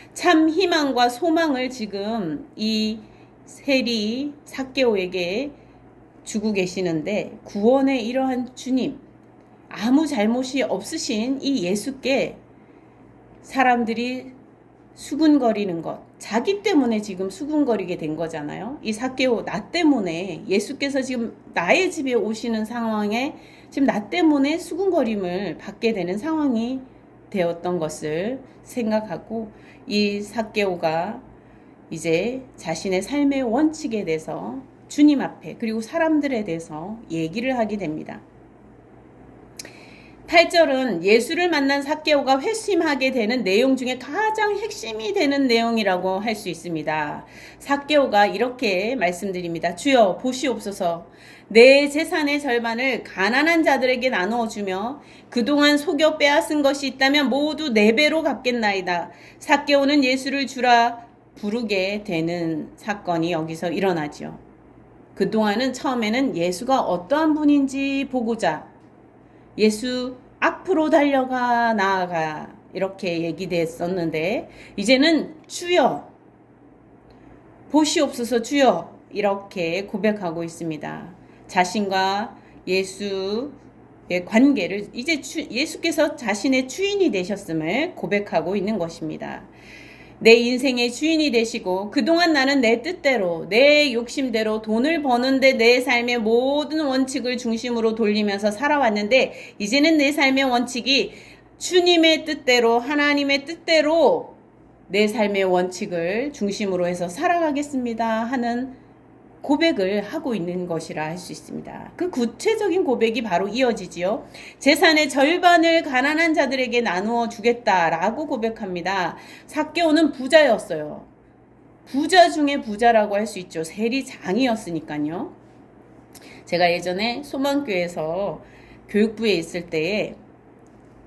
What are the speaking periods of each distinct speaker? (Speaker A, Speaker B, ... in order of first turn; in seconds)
Speaker A: 0.1-5.6, 6.2-9.0, 9.7-12.4, 13.4-14.3, 15.0-31.2, 31.9-38.2, 40.3-64.4, 65.2-68.7, 69.6-76.1, 77.7-83.6, 84.1-89.5, 90.2-108.8, 109.4-121.1, 121.9-125.3, 126.5-130.2